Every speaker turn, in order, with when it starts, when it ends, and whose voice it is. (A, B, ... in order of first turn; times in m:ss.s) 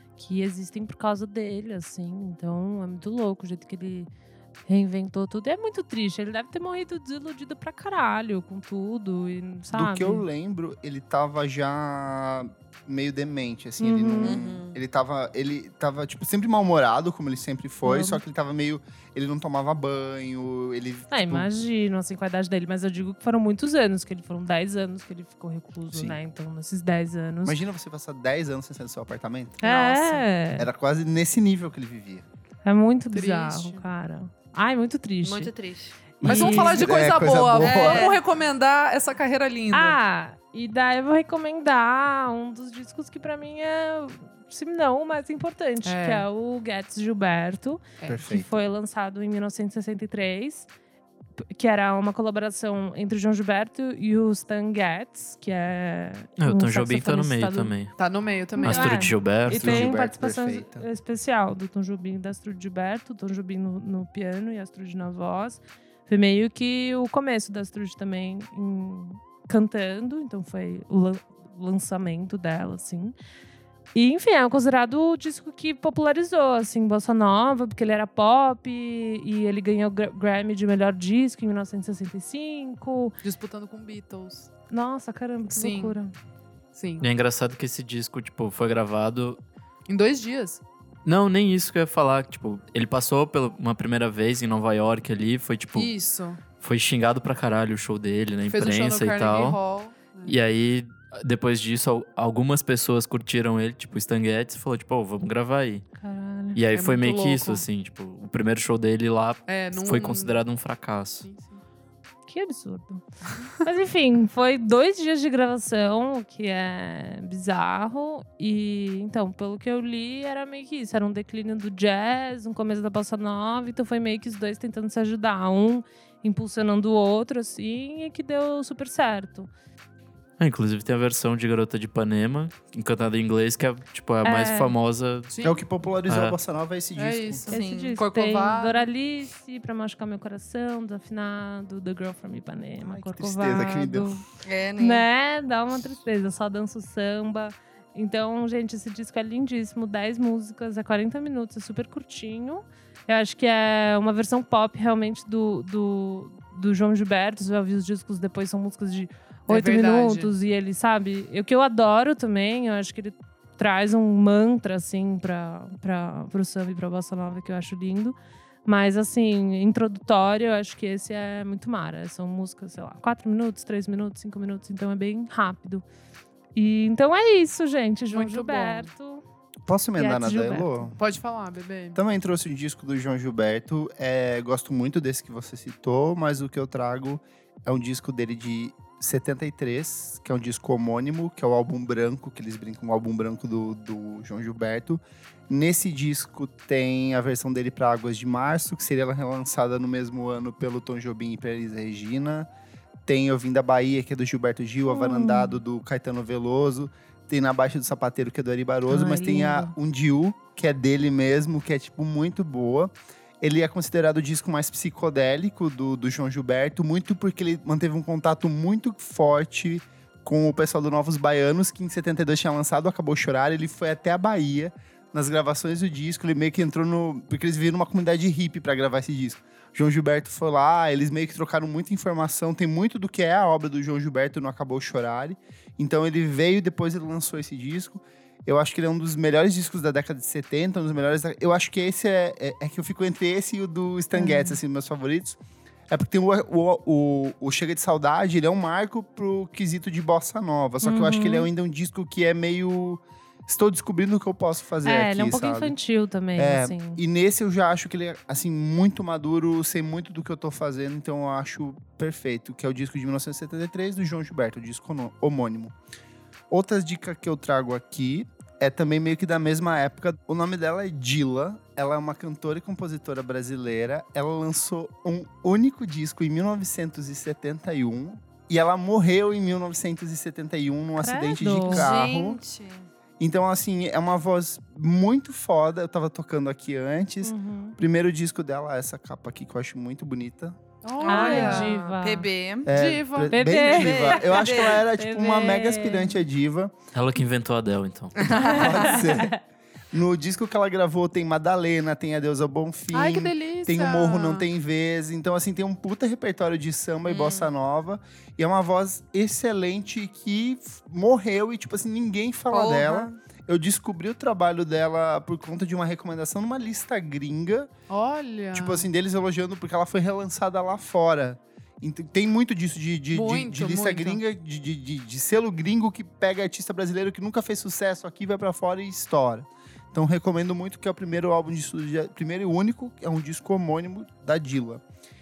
0:00.2-0:04.1 A
0:04.7-0:10.2 A
0:09.7-0:21.5 B
0:13.8-0:14.4 A
0:14.2-0:14.8 C
0:17.8-0:18.2 A
0:21.1-0:27.6 A
0:25.9-0:26.2 B
0:27.4-0:32.3 B
0:29.6-0:30.7 A
0:32.6-0:35.5 A
0:33.1-0:33.9 D
0:35.2-0:36.1 C
0:36.2-0:36.9 A
0:36.2-0:38.2 B
0:36.2-0:40.0 D
0:37.6-0:38.2 C
0:39.7-0:50.7 A
0:45.8-0:46.3 D
0:48.1-0:48.6 B
0:51.5-0:57.8 A
0:56.4-0:57.9 E
0:58.0-0:59.1 D
0:58.6-1:13.2 A
0:58.6-0:59.9 E
0:59.5-1:00.9 B
1:14.0-1:23.2 A
1:23.2-1:24.5 D
1:24.7-1:26.1 A
1:25.5-1:26.0 D
1:26.7-1:27.1 D
1:27.0-1:29.4 E
1:29.9-1:30.6 D
1:31.0-1:35.9 E
1:35.8-1:36.4 D
1:36.6-1:39.6 E
1:38.5-1:40.4 D
1:40.2-1:45.8 E
1:46.0-1:46.6 A
1:46.5-1:51.3 E
1:46.7-1:47.6 D
1:49.5-1:50.4 D
1:51.2-1:51.6 D
1:52.3-2:09.5 A
2:10.4-2:15.3 E
2:14.2-2:14.8 A
2:15.3-2:15.6 D
2:15.4-2:17.5 B
2:16.1-2:16.4 E
2:17.0-2:18.9 D
2:17.5-2:18.0 C
2:17.5-2:24.2 A
2:22.8-2:24.2 B
2:24.4-2:25.1 C
2:24.8-2:55.8 A
2:39.5-2:40.3 D
2:56.6-2:59.2 A
2:58.1-2:58.9 D
2:59.7-3:01.0 B
3:00.0-3:00.9 A
3:01.0-3:02.0 D
3:02.0-3:22.5 B
3:23.1-4:05.4 B
3:24.9-3:25.6 A
3:28.9-3:29.8 A
4:04.1-4:04.6 A
4:05.9-4:15.8 B
4:10.8-4:11.5 A
4:14.8-4:17.0 A
4:16.4-4:25.8 B
4:26.5-4:42.4 B
4:41.0-4:41.9 A
4:41.7-4:42.9 C
4:43.2-4:50.6 B
4:47.2-4:47.8 A
4:50.8-4:51.9 D
4:51.0-4:52.8 C
4:51.0-4:52.3 A
4:52.7-4:56.7 B
4:52.7-4:53.7 D
4:53.3-4:56.2 A
4:53.7-4:54.8 C
4:56.9-4:58.4 E
4:58.2-4:59.1 C
4:58.3-4:59.4 A
4:58.4-4:59.3 B
4:59.9-5:17.7 B
5:02.9-5:04.5 D
5:07.1-5:07.5 C
5:12.5-5:13.2 C
5:17.9-5:18.9 D
5:18.5-5:34.8 B
5:23.1-5:24.2 D